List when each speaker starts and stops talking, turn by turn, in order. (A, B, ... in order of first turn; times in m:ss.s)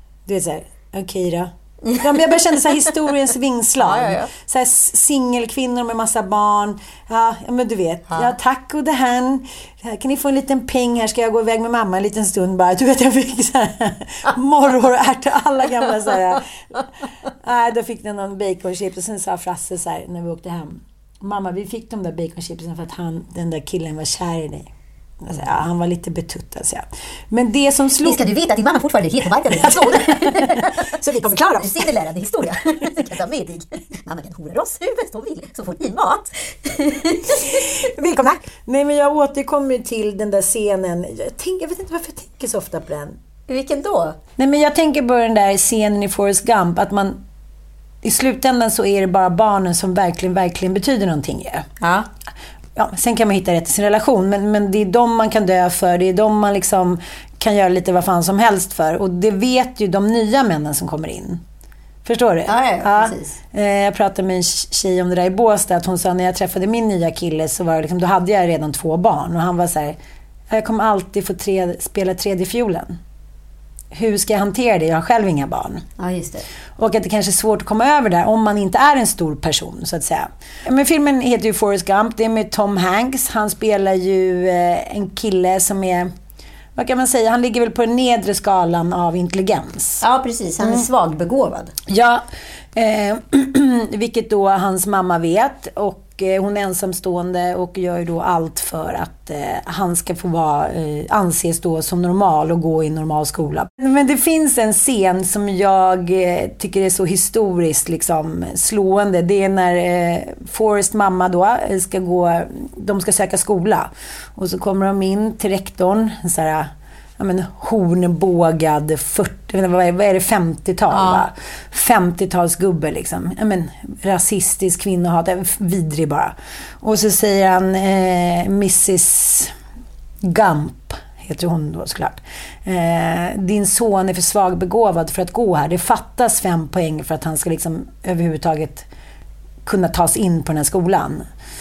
0:00.3-0:16.4 A
0:03.8-0:04.3 B
0:17.4-0:24.7 A
0:25.2-0:28.3 A
0:28.0-0:37.7 B
0:29.5-0:31.8 A
0:37.4-0:43.2 A
0:43.5-0:44.2 B
0:44.4-0:47.2 A
0:48.0-0:51.6 A
0:51.8-0:52.1 B
0:52.7-1:01.4 A
1:02.0-1:10.0 A
1:02.4-1:03.4 B
1:10.5-1:13.0 A
1:13.9-1:15.8 A
1:16.0-1:16.5 B
1:16.8-1:26.1 A
1:26.8-1:30.0 A
1:30.0-1:31.7 B
1:30.6-1:30.8 A
1:31.9-2:09.5 A
2:00.9-2:01.3 B
2:10.2-2:18.9 A
2:19.6-2:21.2 A